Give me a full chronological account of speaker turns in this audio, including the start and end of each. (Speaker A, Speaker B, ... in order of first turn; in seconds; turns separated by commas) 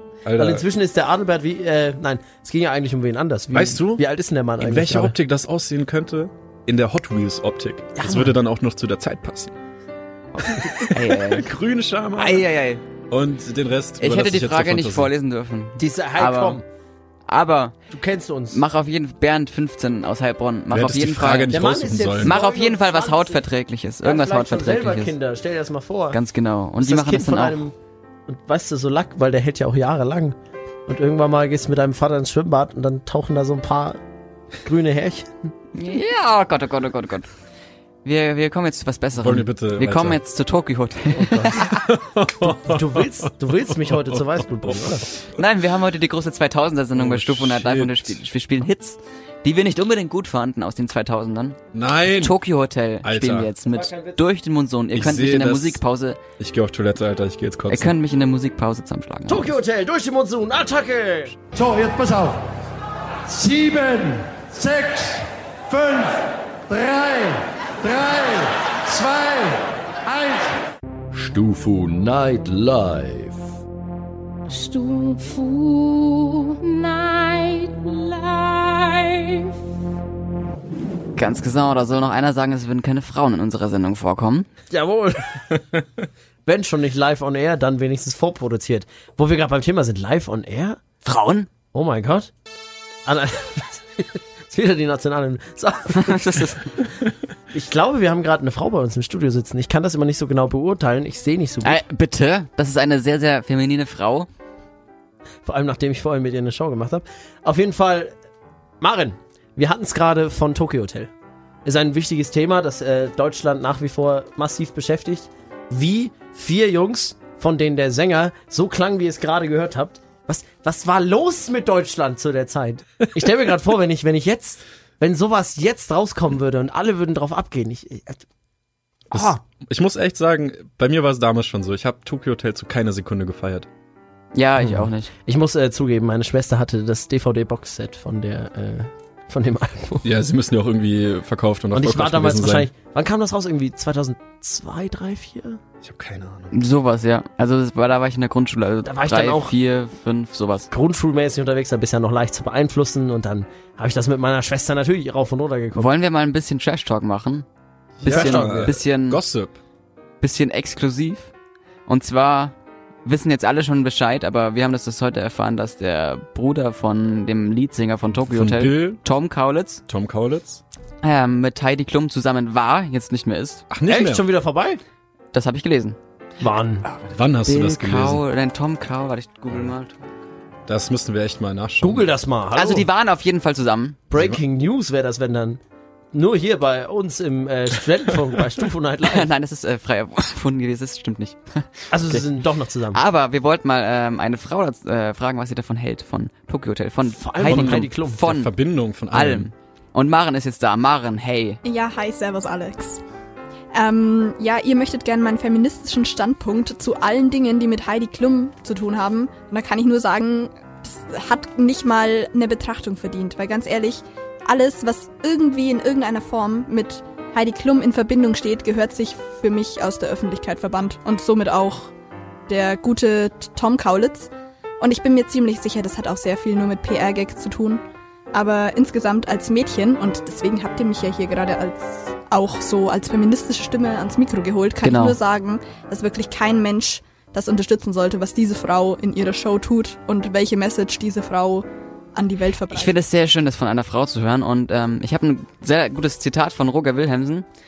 Speaker A: 0.2-0.6, Speaker B: 0.4-5.1, Speaker A: 3.5-4.0, Speaker A: 4.6-9.5, Speaker B: 8.0-8.3, Speaker B: 10.4-10.8, Speaker A: 10.5-12.4, Speaker C: 10.9-11.5, Speaker C: 12.2-12.8, Speaker A: 13.1-15.1, Speaker C: 14.0-16.6, Speaker B: 15.8-16.6, Speaker C: 17.3-17.8, Speaker B: 17.9-18.6, Speaker C: 18.5-21.6, Speaker A: 20.7-22.4, Speaker B: 21.5-23.4, Speaker C: 22.2-25.1, Speaker B: 24.0-26.2, Speaker C: 26.1-27.6, Speaker B: 26.8-27.7, Speaker B: 28.3-30.3, Speaker B: 30.9-34.0, Speaker B: 34.6-35.5, Speaker C: 35.7-37.3, Speaker C: 38.0-41.8, Speaker A: 39.2-40.2, Speaker B: 41.1-41.6, Speaker A: 41.6-44.9, Speaker B: 42.6-45.1, Speaker C: 45.3-51.6, Speaker A: 47.0-48.2, Speaker A: 51.7-52.4, Speaker C: 52.1-56.2, Speaker A: 53.0-53.5, Speaker B: 53.6-54.2, Speaker A: 54.9-55.8, Speaker A: 56.4-57.9, Speaker C: 57.7-59.5, Speaker B: 59.3-61.4, Speaker D: 61.5-62.5, Speaker D: 63.2-70.5, Speaker E: 71.1-73.5, Speaker D: 74.5-79.6, Speaker C: 81.2-84.5, Speaker B: 84.7-85.6, Speaker B: 86.5-90.8, Speaker C: 91.0-91.5, Speaker B: 91.7-92.3, Speaker B: 93.0-97.0, Speaker C: 95.9-96.7, Speaker B: 97.5-101.8, Speaker C: 101.6-104.3, Speaker B: 105.5-108.1, Speaker B: 108.8-111.1, Speaker B: 111.6-128.2, Speaker B: 129.1-129.4, Speaker A: 129.1-133.7, Speaker C: 134.3-135.1, Speaker B: 134.6-140.1, Speaker A: 140.0-142.7, Speaker B: 141.7-145.6, Speaker A: 145.8-146.5, Speaker C: 146.5-150.7, Speaker B: 148.8-149.5, Speaker B: 150.7-155.9, Speaker C: 155.7-157.4, Speaker A: 158.0-159.6, Speaker B: 158.0-158.8, Speaker C: 158.0-159.2, Speaker C: 160.2-161.3, Speaker C: 161.9-162.5, Speaker C: 163.0-169.8, Speaker A: 168.3-169.0, Speaker A: 169.9-170.6, Speaker C: 171.0-173.6, Speaker A: 173.7-174.2, Speaker B: 173.9-174.8, Speaker C: 175.3-176.0, Speaker B: 176.4-176.8, Speaker C: 176.8-180.1, Speaker A: 177.1-178.2, Speaker A: 180.7-182.1, Speaker B: 181.8-182.9, Speaker C: 182.5-184.0, Speaker B: 184.1-185.6, Speaker A: 184.1-184.4, Speaker B: 186.1-189.3, Speaker C: 189.0-192.2, Speaker B: 191.9-193.0, Speaker C: 192.9-198.5, Speaker B: 197.1-198.2, Speaker A: 197.4-199.5, Speaker C: 199.1-201.6, Speaker F: 201.6-203.0, Speaker F: 203.7-221.9, Speaker F: 222.5-227.8, Speaker F: 228.3-242.9, Speaker C: 234.8-235.2, Speaker C: 242.7-247.4